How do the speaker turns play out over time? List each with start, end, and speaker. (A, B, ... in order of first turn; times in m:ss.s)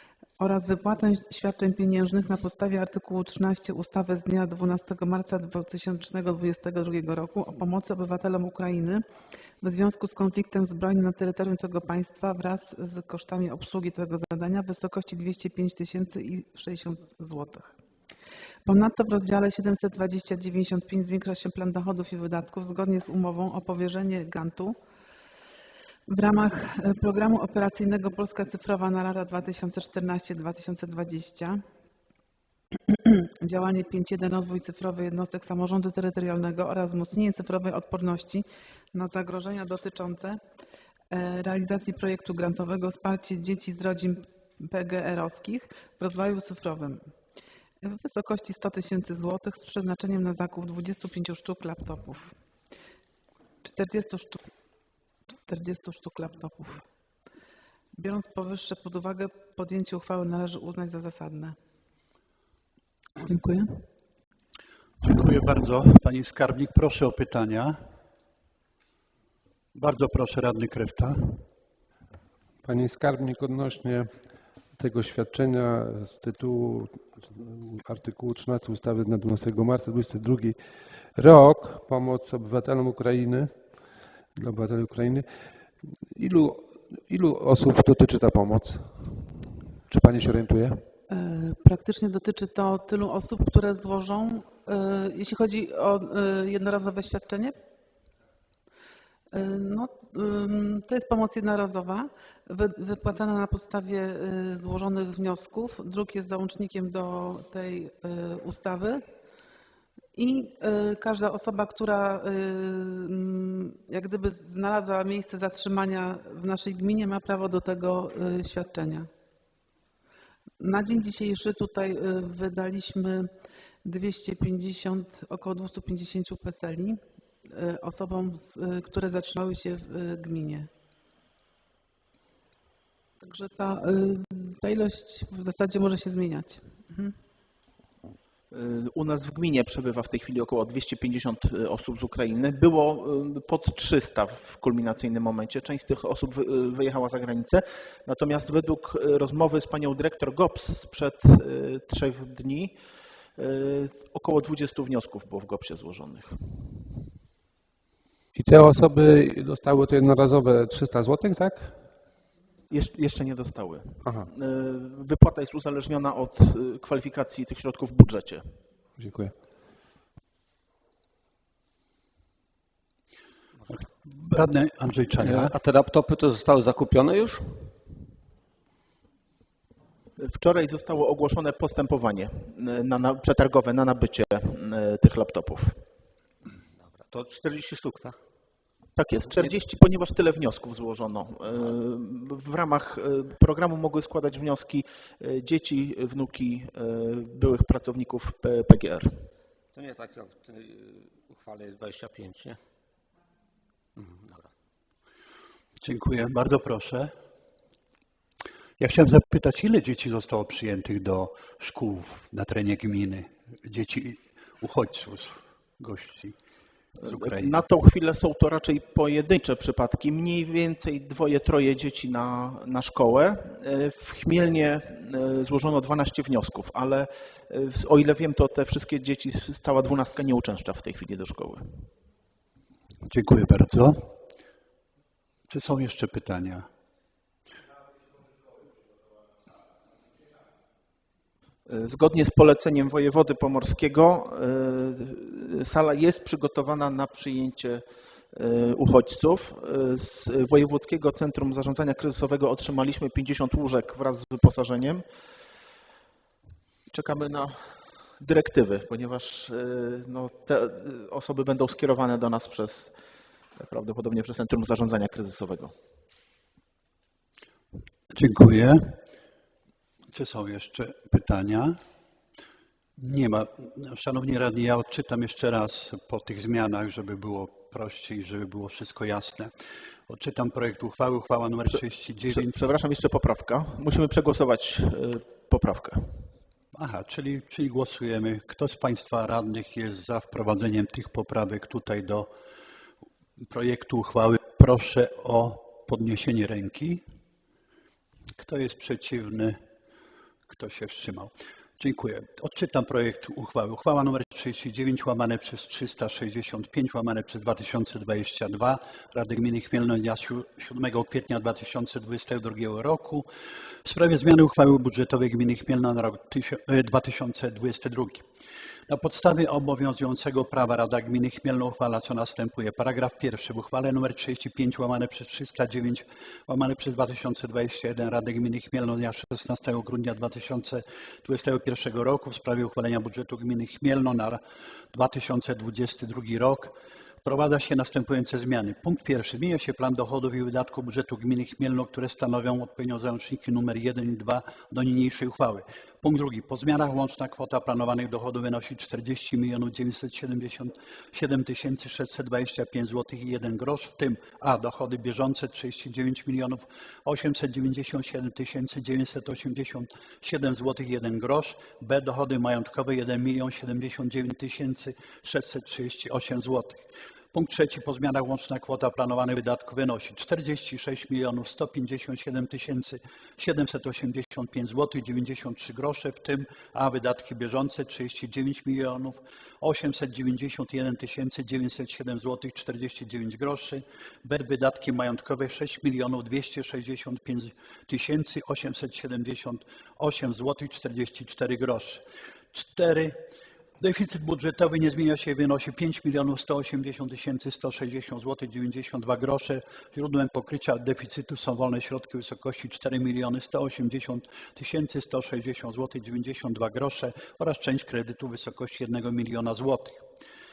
0:00.4-0:09.0 A
0:09.6-0:17.8 A
0:18.7-0:24.8 A
0:26.1-0:31.6 A
0:32.9-0:40.4 A
0:41.1-0:47.0 A
0:47.8-0:52.3 A
0:53.6-0:54.4 A
0:55.5-0:56.8 A
0:58.0-1:01.6 A
1:03.2-1:03.9 A
1:05.0-1:07.8 B
1:09.8-1:11.4 B
1:12.6-1:14.2 C
1:14.8-1:20.6 C
1:21.2-1:23.8 C
1:24.4-1:25.3 C
1:26.1-1:29.2 C
1:29.9-1:30.8 C
1:31.1-1:37.6 A
1:39.3-1:49.0 A
1:50.2-1:59.1 A
2:00.6-2:03.3 A
2:03.8-2:10.7 A
2:13.2-2:17.2 A
2:18.5-2:32.7 D
2:33.4-2:36.7 D
2:38.4-2:41.8 C
2:42.7-2:48.6 D
2:44.0-2:44.3 C
2:49.0-2:49.3 C
2:53.7-2:55.6 B
2:55.2-2:57.7 E
3:00.2-3:05.8 D
3:06.8-3:08.2 E
3:09.0-3:19.3 D
3:19.8-3:22.6 E
3:24.0-3:24.5 E
3:25.8-3:27.1 B
3:28.8-3:36.4 B
3:37.0-3:51.9 D
3:37.0-3:37.6 B
3:53.1-3:54.1 B
3:55.5-3:56.7 B
4:01.7-4:15.0 D
4:16.9-4:17.6 D
4:18.2-4:22.9 D
4:23.6-4:25.7 D
4:28.1-4:29.0 B
4:30.1-4:31.8 B
4:33.0-4:39.5 B
4:40.1-4:42.6 B
4:41.7-4:46.2 D
4:46.8-4:52.3 B
4:53.4-4:57.0 B
4:58.4-4:59.6 B
5:00.5-5:13.3 B
5:13.8-5:18.2 B
5:18.9-5:34.4 B
5:34.9-6:32.0 B
6:32.5-6:33.2 B
6:33.8-6:50.0 B